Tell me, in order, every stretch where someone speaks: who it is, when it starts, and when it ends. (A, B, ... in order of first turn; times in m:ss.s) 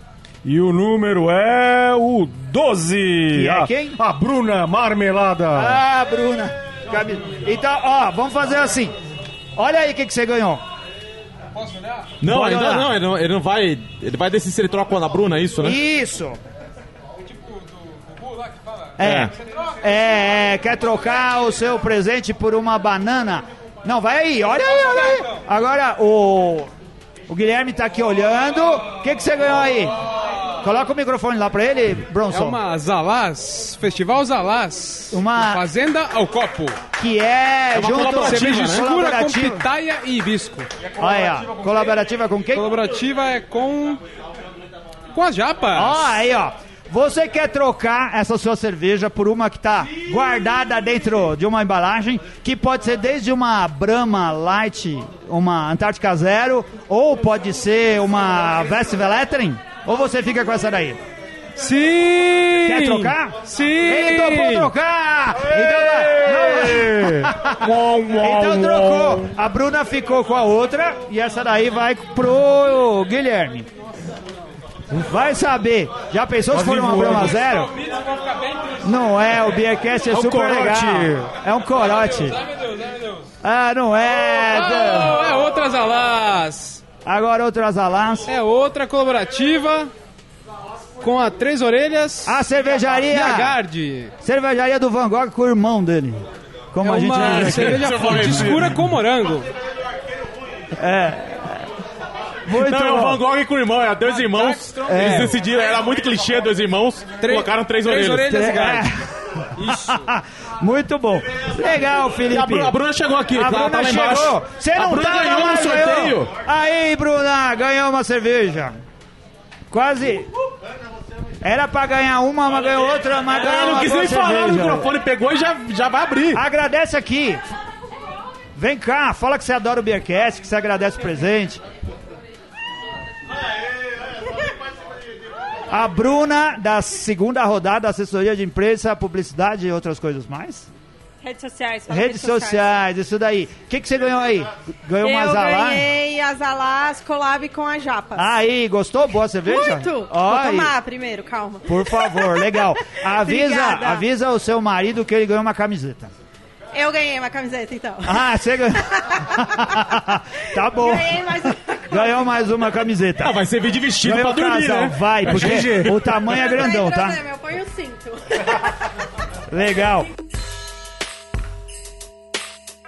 0:00.4-0:05.8 A
0:03.3-0:04.0 B
0:05.5-0:08.9 B
0:09.6-0:10.6 B
0:11.5-0:12.1 C
0:12.2-0:15.8 D
0:12.2-0:12.9 B
0:15.6-0:16.4 B
0:17.3-0:18.9 C
0:19.0-0:26.7 B
0:19.0-0:19.3 D
0:27.3-0:29.9 B
0:30.6-0:32.6 B
0:32.3-0:36.7 C
0:35.1-0:35.6 B
0:37.0-0:39.6 B
0:37.7-0:38.9 D
0:38.3-0:40.6 C
0:41.0-0:42.7 B
0:42.5-0:44.0 C
0:45.1-0:45.9 C
0:45.7-1:01.0 B
1:01.6-1:04.6 C
1:02.6-1:13.7 B
1:05.4-1:09.3 A
1:14.9-1:17.7 B
1:16.5-1:17.4 A
1:17.8-1:18.8 C
1:18.8-1:22.4 B
1:20.1-1:21.3 A
1:22.3-1:23.2 C
1:23.4-1:25.2 B
1:24.6-1:26.8 C
1:27.0-1:28.3 B
1:28.3-1:29.9 C
1:31.0-1:32.3 C
1:32.2-1:33.6 B
1:33.1-1:34.1 C
1:34.2-1:38.8 B
1:36.8-1:39.4 C
1:37.1-1:38.8 D
1:40.8-1:41.6 B
1:42.4-1:43.2 B
1:42.6-1:48.3 D
1:44.8-1:45.3 B
1:47.2-1:48.6 C
1:48.2-1:49.0 B
1:49.6-1:52.7 B
1:52.3-1:56.3 D
1:53.3-1:58.7 B
1:59.7-2:00.3 B
2:01.4-2:04.9 B
2:03.3-2:06.4 D
2:06.3-2:07.4 B
2:08.6-2:11.6 B
2:15.7-2:20.7 B
2:21.2-2:22.8 E
2:21.9-2:25.9 B
2:25.0-2:28.4 E
2:28.2-2:30.7 B
2:29.4-2:34.1 E
2:31.6-2:36.1 B
2:36.7-2:39.9 E
2:38.0-2:43.4 B
2:40.6-2:42.7 E
2:43.2-2:46.1 D
2:44.0-2:47.2 B
2:45.2-2:45.9 A
2:46.4-2:48.6 E
2:49.5-2:50.1 B